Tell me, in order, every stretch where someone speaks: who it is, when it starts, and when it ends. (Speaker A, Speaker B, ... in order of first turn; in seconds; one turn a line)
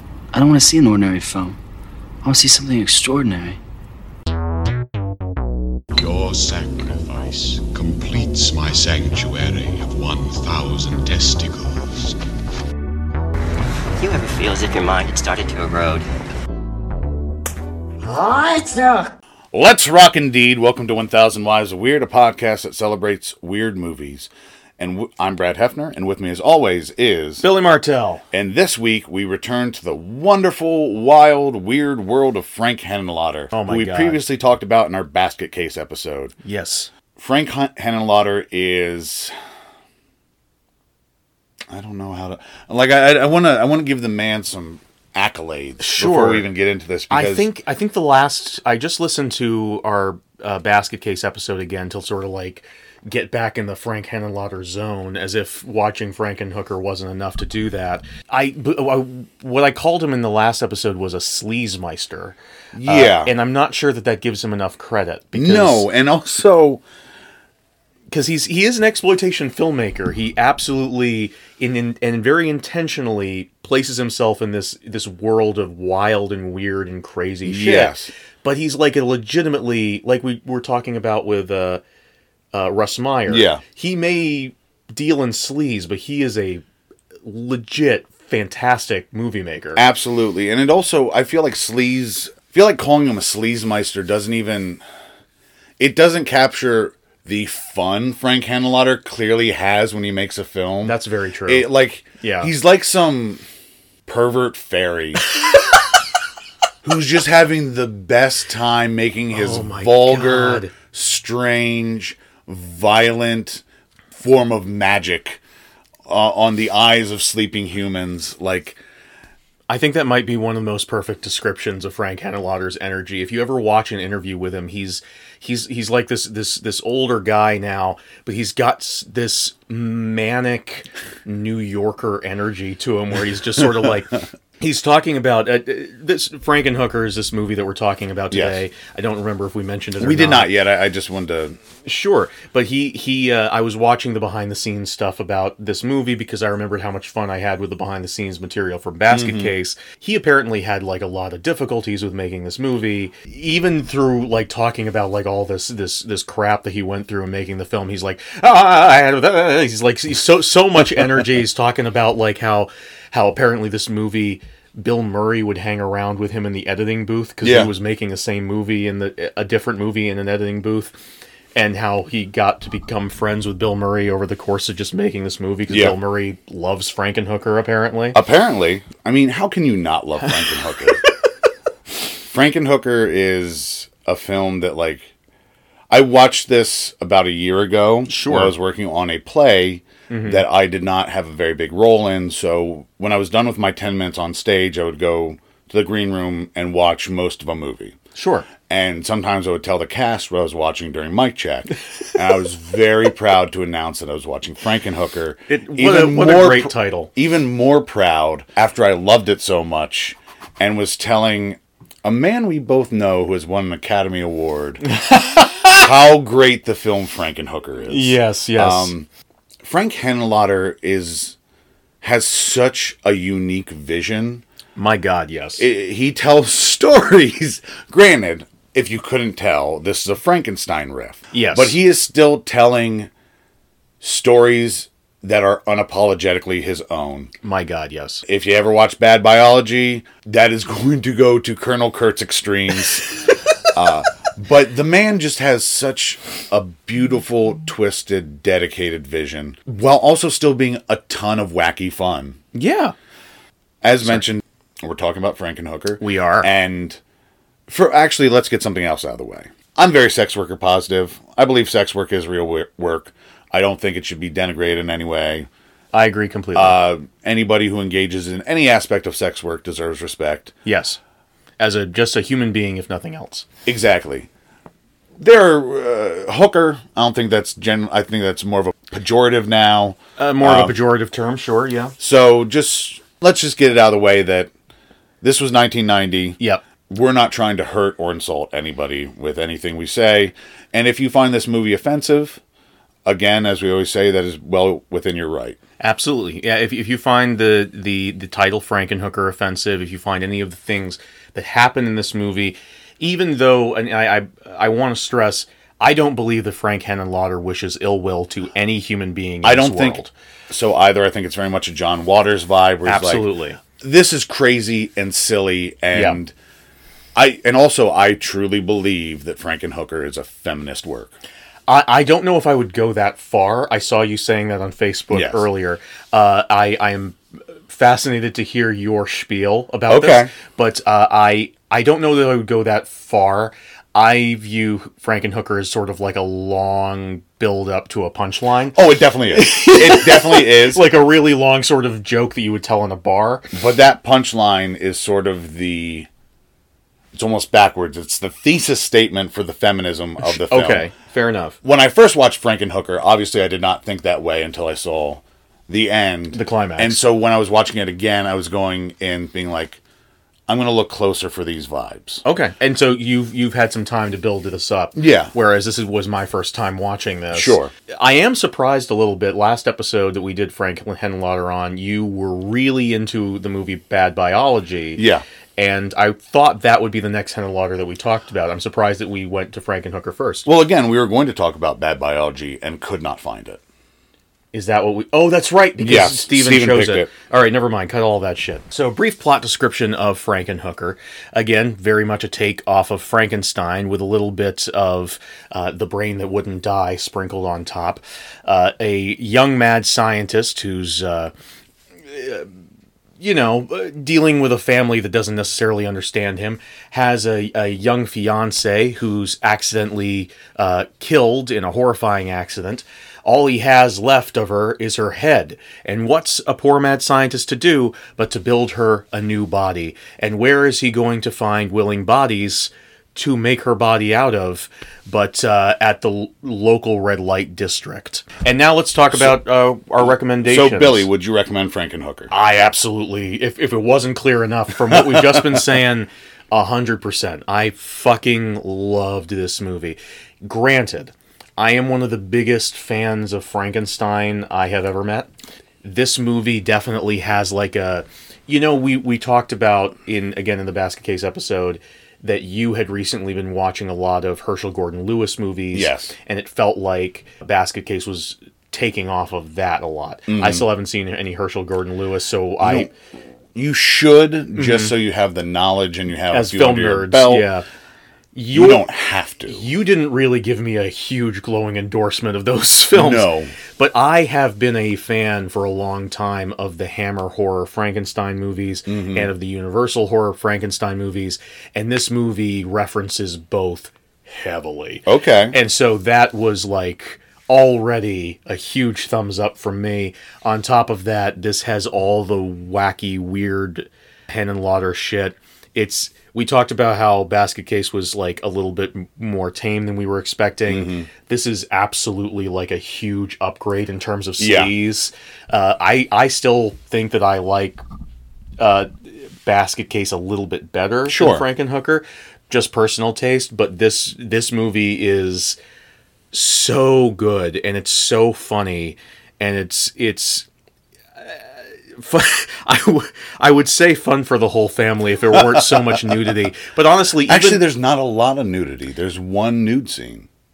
Speaker A: 0.3-1.6
Speaker A: 2.2-3.6
Speaker B: 6.0-12.2
Speaker C: 14.0-16.1
Speaker D: 18.0-27.4
Speaker E: 27.4-28.2
Speaker D: 28.3-36.3
Speaker E: 33.5-34.2
Speaker E: 36.4-36.9
Speaker D: 37.2-39.3
Speaker D: 41.7-47.5
Speaker E: 45.8-46.5
Speaker E: 47.1-65.9
Speaker D: 62.7-63.3
Speaker D: 65.3-66.8
Speaker E: 68.1-81.8
Speaker D: 77.5-78.1
Speaker E: 82.5-86.6
Speaker D: 83.3-83.6
Speaker E: 87.2-89.8
Speaker D: 89.8-94.8
Speaker D: 95.8-103.4
Speaker E: 100.8-101.7
Speaker E: 102.2-102.5
Speaker D: 104.1-105.2
Speaker D: 106.8-115.4
Speaker E: 109.3-110.7
Speaker D: 116.1-118.8
Speaker E: 119.7-140.5
Speaker D: 138.3-138.6
Speaker D: 140.0-141.6
Speaker E: 141.8-170.9
Speaker D: 149.1-149.5
Speaker D: 167.4-167.7
Speaker E: 171.6-178.2
Speaker D: 175.7-175.9
Speaker D: 178.1-181.0
Speaker D: 182.0-185.1
Speaker D: 185.9-198.0
Speaker E: 188.1-188.5
Speaker E: 190.1-190.4
Speaker E: 198.2-198.5
Speaker D: 198.7-214.8
Speaker E: 205.5-207.1
Speaker E: 214.9-215.9
Speaker D: 215.8-219.1
Speaker E: 217.9-218.9
Speaker D: 219.6-221.3
Speaker D: 222.0-224.4
Speaker E: 224.8-225.7
Speaker D: 225.6-233.1
Speaker E: 231.3-231.8
Speaker D: 234.0-237.3
Speaker E: 237.4-238.2
Speaker D: 238.3-243.1
Speaker D: 243.7-252.4
Speaker E: 252.5-252.9
Speaker D: 253.8-257.0
Speaker E: 256.0-256.5
Speaker D: 257.7-265.5
Speaker E: 265.9-266.8
Speaker D: 266.5-270.6
Speaker E: 270.6-271.0
Speaker E: 271.6-273.5
Speaker D: 273.7-274.3
Speaker D: 275.2-280.8
Speaker E: 280.2-281.9
Speaker D: 282.0-284.5
Speaker D: 285.2-286.4
Speaker D: 286.9-292.4
Speaker D: 293.1-295.6
Speaker E: 295.8-310.1
Speaker D: 309.4-316.3
Speaker E: 312.9-313.6
Speaker E: 315.9-316.2
Speaker D: 317.1-321.1
Speaker E: 321.7-338.8
Speaker D: 325.1-325.5
Speaker D: 329.9-330.3
Speaker D: 338.7-340.9
Speaker E: 339.3-343.5
Speaker D: 343.5-346.1
Speaker D: 347.1-350.9
Speaker E: 350.2-351.6
Speaker D: 351.6-359.8
Speaker E: 356.3-357.0
Speaker D: 360.5-362.2
Speaker E: 362.2-375.1
Speaker D: 365.0-365.3
Speaker D: 367.3-367.7
Speaker D: 375.0-375.2
Speaker E: 375.6-380.5
Speaker D: 380.4-383.6
Speaker E: 384.5-401.3
Speaker D: 385.8-387.1
Speaker E: 402.1-402.5
Speaker E: 403.2-431.1
Speaker D: 430.5-432.3
Speaker E: 432.3-445.3
Speaker D: 434.9-435.6
Speaker E: 445.8-462.9
Speaker D: 455.7-456.1
Speaker D: 460.3-460.7
Speaker D: 462.6-462.9
Speaker D: 463.6-467.5
Speaker E: 464.5-464.9
Speaker E: 466.3-467.7
Speaker E: 468.4-468.9
Speaker D: 468.5-469.7
Speaker E: 469.5-507.8
Speaker D: 472.9-473.5
Speaker D: 478.9-479.3
Speaker D: 485.1-485.6
Speaker D: 500.7-501.1
Speaker D: 504.4-504.7
Speaker E: 508.6-515.6
Speaker D: 511.1-511.5
Speaker E: 516.3-520.5
Speaker E: 521.9-527.6
Speaker D: 525.3-526.1
Speaker D: 527.3-530.3